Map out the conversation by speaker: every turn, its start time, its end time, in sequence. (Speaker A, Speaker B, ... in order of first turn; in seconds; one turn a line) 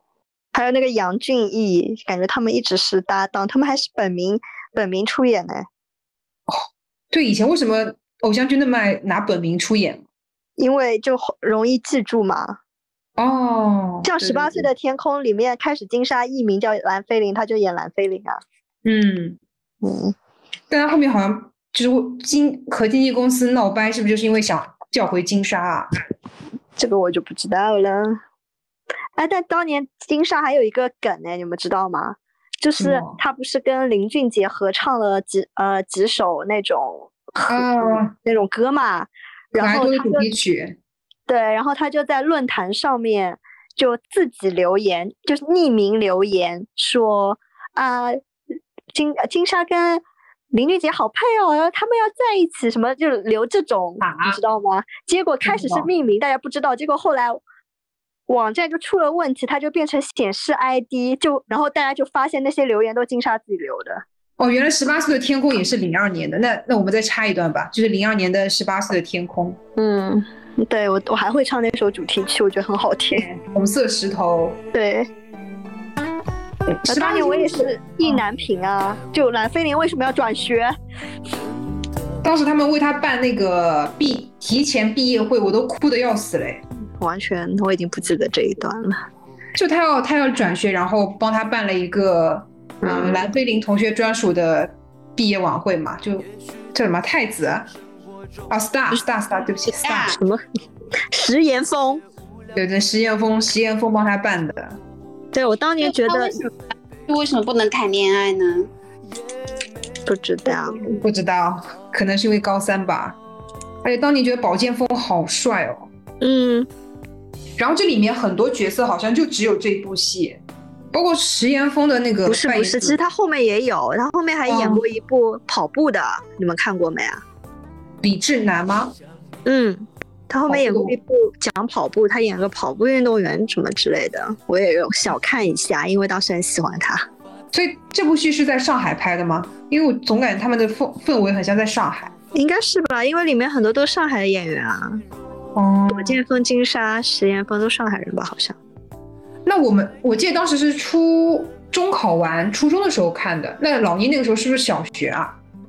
Speaker A: 0.5-5.7
Speaker B: 6.5-10.0
Speaker A: 10.6-12.6
Speaker B: 13.2-14.7
Speaker A: 14.0-18.4
Speaker B: 18.9-19.4
Speaker A: 19.8-20.1
Speaker B: 20.7-26.0
Speaker A: 26.8-28.2
Speaker A: 29.2-40.3
Speaker B: 32.8-33.2
Speaker B: 37.5-38.1
Speaker B: 39.6-40.8
Speaker A: 41.3-48.2
Speaker A: 48.9-57.4
Speaker B: 54.0-54.4
Speaker B: 55.4-55.9
Speaker A: 58.3-64.0
Speaker B: 64.4-69.6
Speaker A: 69.8-73.3
Speaker B: 73.1-74.6
Speaker A: 74.7-75.1
Speaker B: 76.7-78.2
Speaker A: 76.8-80.7
Speaker B: 82.2-86.6
Speaker A: 87.0-89.1
Speaker B: 89.6-97.7
Speaker A: 92.8-93.3
Speaker B: 98.5-100.2
Speaker C: 99.8-100.2
Speaker A: 100.1-100.4
Speaker A: 101.1-102.0
Speaker B: 102.5-104.8
Speaker A: 105.3-106.5
Speaker C: 105.8-106.5
Speaker C: 107.1-108.7
Speaker A: 110.1-110.9
Speaker B: 110.9-113.2
Speaker B: 113.8-115.9
Speaker A: 116.2-116.7
Speaker B: 117.6-120.4
Speaker B: 120.9-123.0
Speaker A: 122.3-127.2
Speaker B: 124.5-124.8
Speaker B: 128.0-128.9
Speaker A: 129.5-137.1
Speaker B: 130.5-131.0
Speaker B: 137.5-142.1
Speaker A: 142.3-145.0
Speaker B: 145.6-146.2
Speaker A: 145.9-148.6
Speaker B: 149.4-155.4